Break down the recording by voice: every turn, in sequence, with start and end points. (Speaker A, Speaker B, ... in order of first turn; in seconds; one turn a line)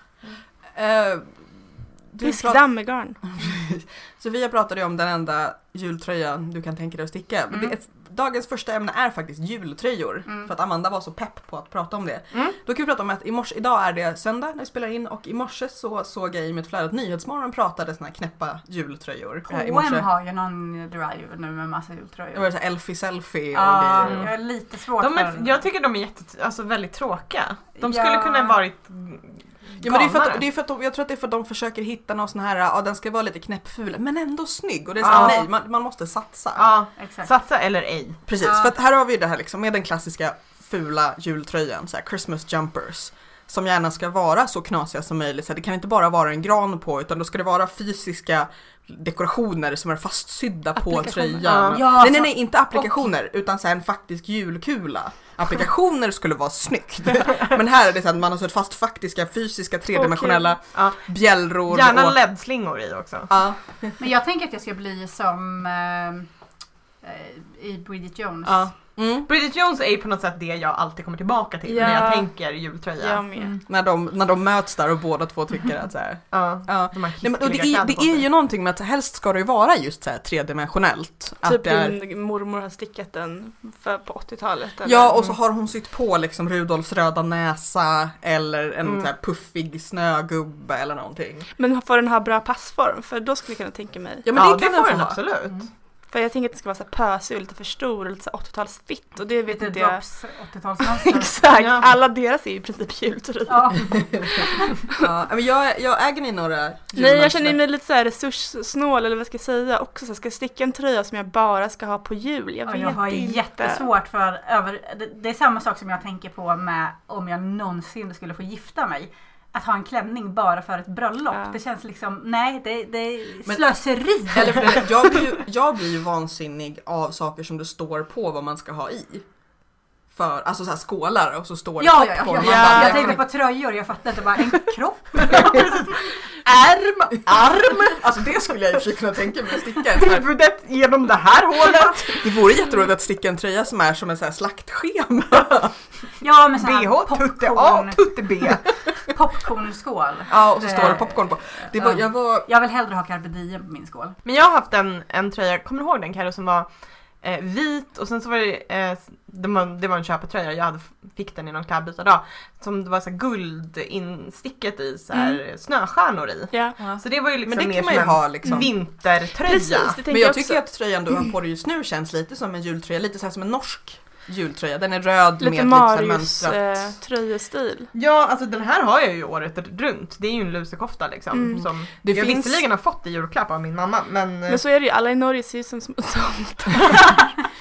Speaker A: 0.7-1.6
Speaker A: 2.1-2.7
Speaker B: 2.2-3.2
Speaker A: 3.2-20.1
Speaker C: 19.5-22.5
Speaker A: 22.3-24.3
Speaker C: 23.5-25.6
Speaker D: 24.0-24.3
Speaker D: 25.0-30.4
Speaker C: 27.8-28.6
Speaker A: 29.8-36.6
Speaker C: 35.0-35.4
Speaker D: 35.1-35.4
Speaker D: 36.5-38.2
Speaker C: 37.0-37.3
Speaker A: 38.3-62.2
Speaker C: 38.4-38.7
Speaker B: 50.8-51.5
Speaker D: 51.4-51.9
Speaker C: 51.7-52.5
Speaker B: 59.9-60.6
Speaker D: 60.7-61.1
Speaker D: 61.6-63.3
Speaker A: 63.3-64.0
Speaker C: 64.0-66.3
Speaker C: 67.0-68.7
Speaker D: 68.5-73.2
Speaker A: 69.0-69.3
Speaker B: 71.7-73.5
Speaker C: 73.4-73.6
Speaker A: 73.7-82.0
Speaker D: 76.3-78.3
Speaker B: 81.4-85.1
Speaker A: 84.8-91.5
Speaker D: 88.8-89.1
Speaker B: 91.6-94.3
Speaker A: 94.2-95.2
Speaker D: 94.3-95.6
Speaker B: 96.1-100.0
Speaker C: 99.5-101.4
Speaker B: 100.8-105.0
Speaker D: 101.6-101.9
Speaker C: 103.5-104.5
Speaker A: 105.0-107.6
Speaker B: 107.0-113.9
Speaker C: 112.7-125.2
Speaker B: 121.3-121.6
Speaker A: 123.5-129.3
Speaker A: 130.1-133.2
Speaker C: 131.8-135.8
Speaker D: 135.3-138.0
Speaker A: 137.7-140.3
Speaker D: 139.9-142.3
Speaker A: 142.1-145.8
Speaker C: 146.2-148.1
Speaker D: 146.6-148.7
Speaker C: 149.1-154.2
Speaker A: 150.3-152.5
Speaker D: 154.2-170.0
Speaker B: 165.1-165.4
Speaker B: 166.5-166.8
Speaker A: 166.8-168.7
Speaker B: 169.4-170.8
Speaker A: 170.1-176.9
Speaker B: 175.4-177.9
Speaker D: 177.9-184.6
Speaker B: 181.3-181.7
Speaker A: 181.6-182.6
Speaker B: 184.5-187.3